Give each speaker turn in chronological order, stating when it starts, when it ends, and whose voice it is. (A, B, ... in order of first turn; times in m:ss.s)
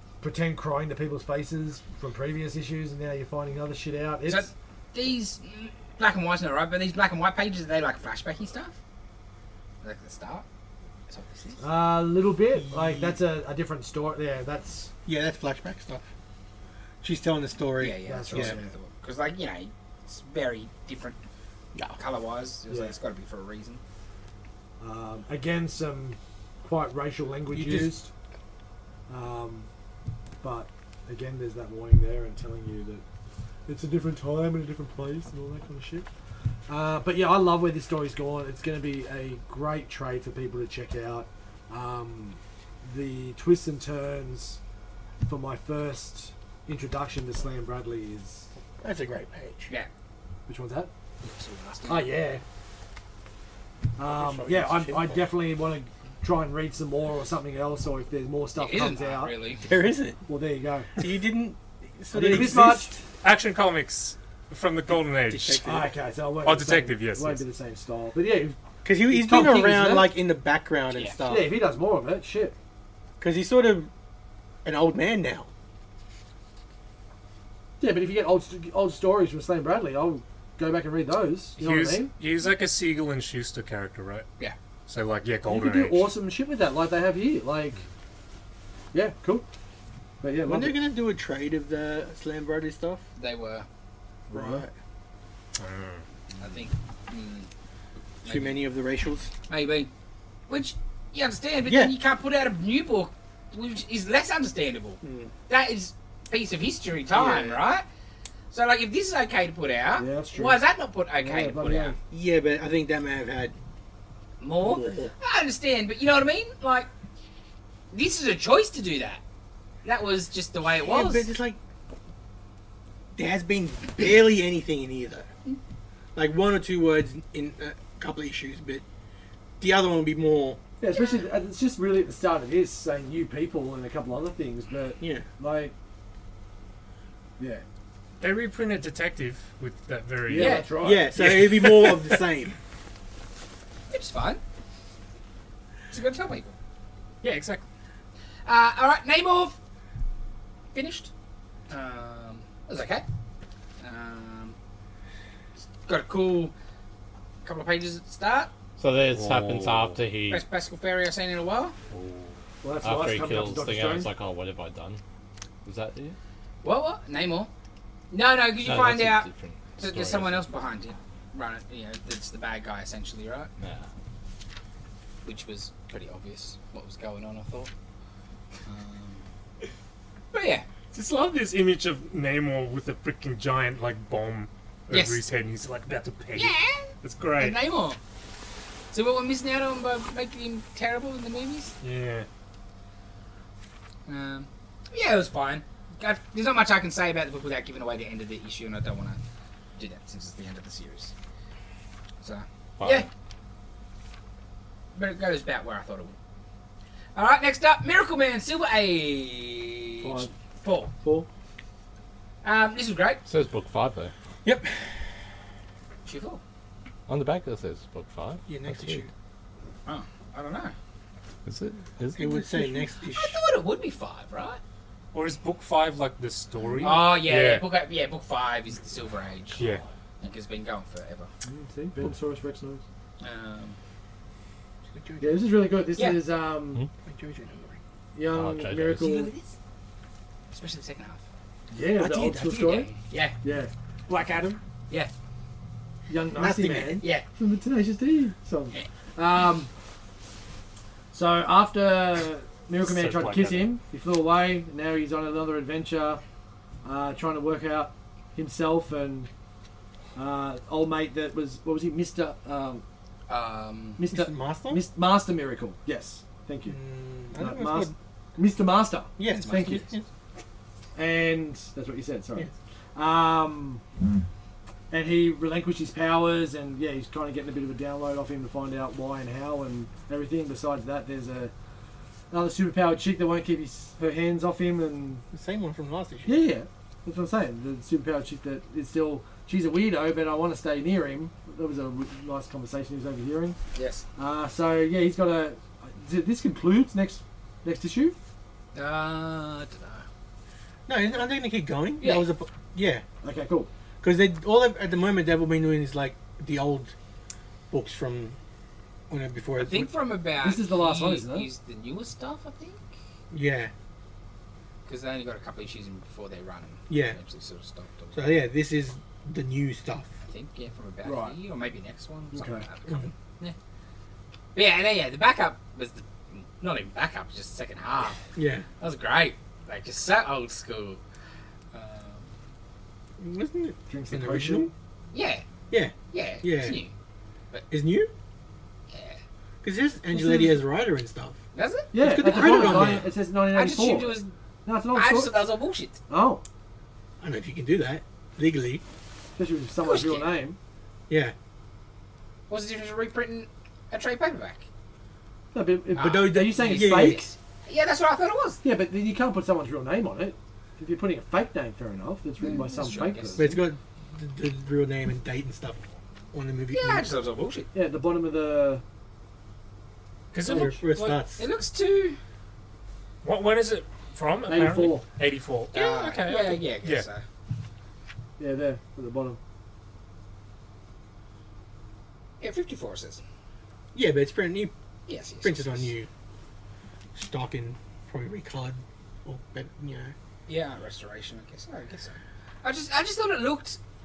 0:00.2-0:04.5 A
0:04.3-0:08.7 B
0:09.8-0:10.4 B
0:11.1-0:11.6 B
0:11.6-0:14.9 A
0:12.5-0:13.2 C
0:15.0-0:16.1 C
0:17.0-0:18.5 C
0:17.8-0:21.2 B
0:18.0-0:18.7 A
0:22.0-0:23.8 B
0:22.7-0:22.9 A
0:24.8-0:28.1 A
0:27.5-0:28.0 C
0:29.1-0:29.7 A
0:30.4-0:33.0 A
0:33.6-0:36.1 A
0:36.7-0:44.6 A
0:45.2-0:48.5 A
0:48.8-0:49.7 C
0:50.5-0:50.9 A
0:51.2-0:52.1 B
0:51.9-0:52.4 A
0:54.0-0:59.3 A
0:54.2-0:55.2 C
0:58.6-0:59.6 B
0:59.6-1:00.2 C
1:00.3-1:00.9 A
1:01.0-1:03.0 C
1:02.1-1:03.0 A
1:03.2-1:05.7 D
1:05.3-1:05.9 C
1:05.6-1:10.1 A
1:06.4-1:07.4 D
1:08.8-1:11.5 C
1:11.3-1:12.5 A
1:13.2-1:13.9 C
1:14.6-1:15.5 C
1:17.8-1:22.1 A
1:21.6-1:24.2 D
1:24.9-1:26.1 D
1:25.4-1:27.8 A
1:28.9-1:29.5 A
1:30.2-1:30.8 A
1:30.4-1:33.0 C
1:33.2-1:33.6 B
1:34.3-1:34.7 A
1:34.3-1:34.7 C
1:35.6-1:36.0 D
1:36.4-1:37.5 B
1:38.2-1:38.6 B
1:38.2-1:39.3 C
1:39.5-1:39.9 B
1:40.5-1:47.8 B
1:41.6-1:41.9 C
1:45.0-1:45.3 C
1:47.1-1:47.6 C
1:48.5-1:52.0 B
1:50.0-1:50.6 A
1:51.2-1:52.0 A
1:52.1-1:53.5 C
1:54.4-1:56.9 B
1:54.6-1:55.1 C
1:57.9-1:59.2 B
1:59.8-2:01.3 B
2:00.6-2:01.6 C
2:03.2-2:05.3 C
2:06.1-2:08.8 C
2:09.6-2:10.6 C
2:10.8-2:15.7 A
2:10.9-2:11.2 B
2:15.0-2:15.2 C
2:17.4-2:17.6 A
2:18.2-2:22.2 D
2:20.3-2:21.1 A
2:20.3-2:20.7 B
2:20.8-2:22.6 C
2:23.9-2:24.4 B
2:25.9-2:26.6 B
2:27.2-2:27.6 D
2:28.4-2:29.6 B
2:30.7-2:31.1 B
2:31.7-2:33.0 B
2:33.8-2:34.5 B
2:35.8-2:36.5 B
2:37.4-2:38.5 B
2:38.8-2:40.4 E
2:39.1-2:40.0 D
2:40.3-2:41.7 B
2:41.9-2:42.3 D
2:42.6-2:44.1 A
2:42.8-2:45.0 E
2:45.6-2:46.2 E
2:46.6-2:47.5 B
2:48.1-2:49.3 B
2:48.6-2:50.4 E
2:49.8-2:53.5 B
2:53.6-2:53.9 E
2:55.2-2:57.7 B
2:58.6-2:59.2 B
3:00.3-3:00.6 B
3:00.9-3:07.6 D
3:04.9-3:05.2 B
3:06.3-3:08.0 B
3:08.9-3:11.7 B
3:11.8-3:12.3 D
3:14.1-3:19.2 B
3:19.8-3:21.1 B
3:22.2-3:23.1 B
3:22.8-3:23.1 E
3:24.9-3:26.1 B
3:27.1-3:30.9 B
3:30.0-3:30.3 A
3:31.0-3:31.3 A
3:32.4-3:33.2 B
3:33.2-3:34.1 E
3:34.4-3:34.8 C
3:36.0-3:36.4 B
3:37.1-3:39.0 E
3:38.5-3:39.1 C
3:39.8-3:40.7 B
3:41.4-3:42.4 E
3:42.1-3:43.4 C
3:43.1-3:44.6 B
3:45.1-3:47.6 D
3:46.8-3:49.6 B
3:49.6-3:49.8 D
3:50.2-3:51.3 B
3:51.4-3:52.8 A
3:53.2-3:53.8 B
3:54.9-3:55.4 C
3:55.2-3:56.8 A
3:56.0-3:56.2 B
3:57.0-3:57.8 C
3:58.1-3:59.3 A
3:58.3-3:59.1 E
3:59.0-3:59.5 B
4:00.5-4:01.2 B
4:01.7-4:02.9 A
4:02.0-4:03.3 B
4:02.0-4:02.5 C
4:03.4-4:03.7 A
4:04.1-4:04.6 D
4:06.1-4:09.7 A
4:06.3-4:07.0 C
4:11.1-4:16.2 A
4:12.8-4:13.7 D
4:16.8-4:19.3 A
4:20.1-4:22.8 A
4:23.3-4:24.0 B
4:24.0-4:26.8 A
4:24.1-4:24.8 C
4:26.7-4:27.9 C
4:27.3-4:29.8 A
4:29.2-4:30.0 C
4:29.3-4:29.9 B
4:31.0-4:33.8 A
4:34.9-4:41.5 A
4:42.3-4:45.2 A
4:45.3-4:46.4 C
4:46.2-4:53.6 A
4:53.7-4:54.0 B
4:54.2-4:58.2 A
4:58.7-5:00.0 B
5:00.9-5:03.0 C
5:02.0-5:02.3 B
5:03.2-5:03.7 A
5:04.0-5:06.9 C
5:07.7-5:08.4 C
5:09.1-5:09.9 C
5:09.6-5:12.8 B
5:10.4-5:11.5 A
5:13.3-5:13.7 C
5:14.8-5:18.4 B
5:16.9-5:17.2 C
5:18.1-5:20.1 C
5:20.2-5:23.6 B
5:21.0-5:21.4 A
5:22.3-5:22.6 A
5:24.5-5:28.2 B
5:28.3-5:28.6 C
5:28.8-5:31.0 B
5:31.7-5:32.3 B
5:33.2-5:34.7 C
5:33.9-5:34.7 A
5:35.1-5:35.4 B
5:35.7-5:36.8 C
5:36.1-5:36.9 B
5:37.7-5:38.1 C
5:38.9-5:39.2 B
5:39.6-5:41.4 C
5:40.1-5:40.6 A
5:41.5-5:44.3 B
5:41.9-5:45.3 A
5:42.0-5:43.0 C
5:44.9-5:46.0 B
5:46.1-5:46.4 A
5:47.2-5:48.8 C
5:49.4-5:50.6 A
5:49.8-5:50.3 B
5:51.1-5:51.3 C
5:52.5-5:54.6 B
5:55.5-5:57.3 A
5:55.9-5:57.2 C
5:56.0-5:58.6 B
5:58.6-6:03.6 A
6:02.4-6:03.5 B
6:03.4-6:07.1 C
6:06.7-6:07.7 B
6:07.7-6:08.8 A
6:10.3-6:11.2 D
6:10.4-6:11.4 C
6:10.4-6:12.2 B
6:13.2-6:17.0 D
6:14.5-6:15.0 A
6:15.7-6:17.2 B
6:18.4-6:19.4 A
6:22.4-6:23.2 B
6:23.9-6:24.7 C
6:25.1-6:25.9 B
6:25.4-6:26.1 C
6:27.1-6:30.1 C
6:30.5-6:33.8 B